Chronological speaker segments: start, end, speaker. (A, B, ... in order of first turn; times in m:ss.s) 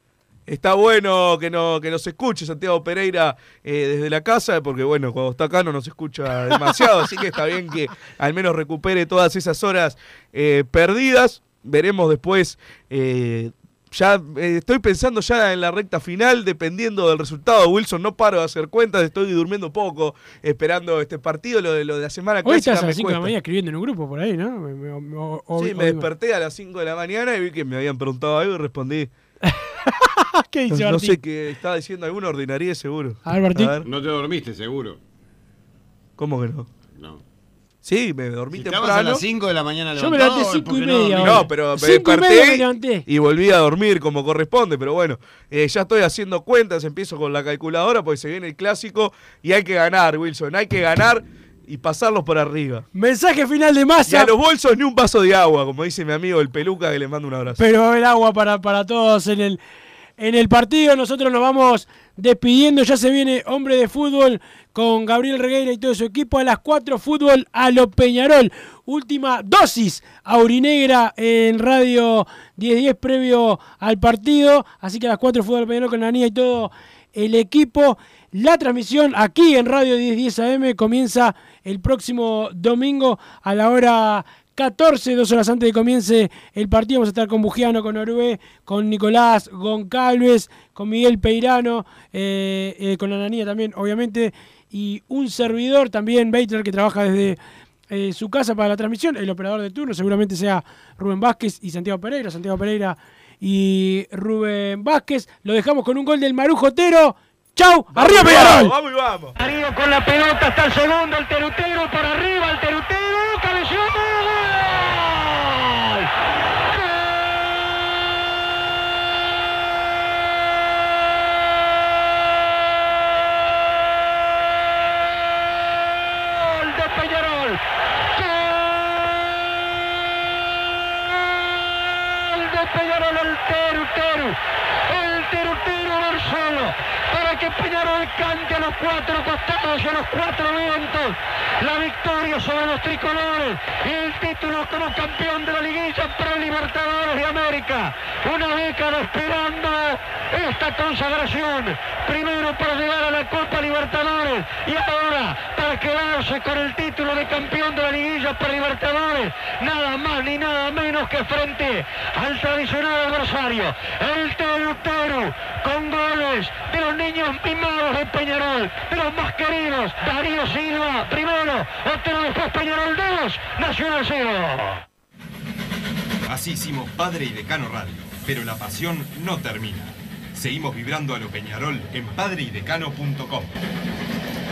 0:00.5-0:23.3 A
0:22.4-0:26.1 B
0:25.6-0:29.1 A
0:29.4-0:31.2 B
0:30.7-0:33.9 A
0:33.2-0:33.8 B
0:33.8-0:35.0 C
0:36.2-0:36.7 A
0:37.0-0:37.2 C
0:37.8-0:39.2 A
0:38.5-0:41.3 C
0:39.9-0:43.1 B
0:41.2-0:52.8 A
0:52.9-0:54.3 B
0:54.1-0:57.6 A
0:57.6-0:59.6 B
1:00.2-1:48.7 B
1:47.9-1:49.3 A
1:49.4-1:55.8 D
2:06.3-2:07.6 D
2:08.2-2:09.0 D
2:11.8-2:14.4 D
2:14.9-2:54.8 D
2:56.3-3:03.5 E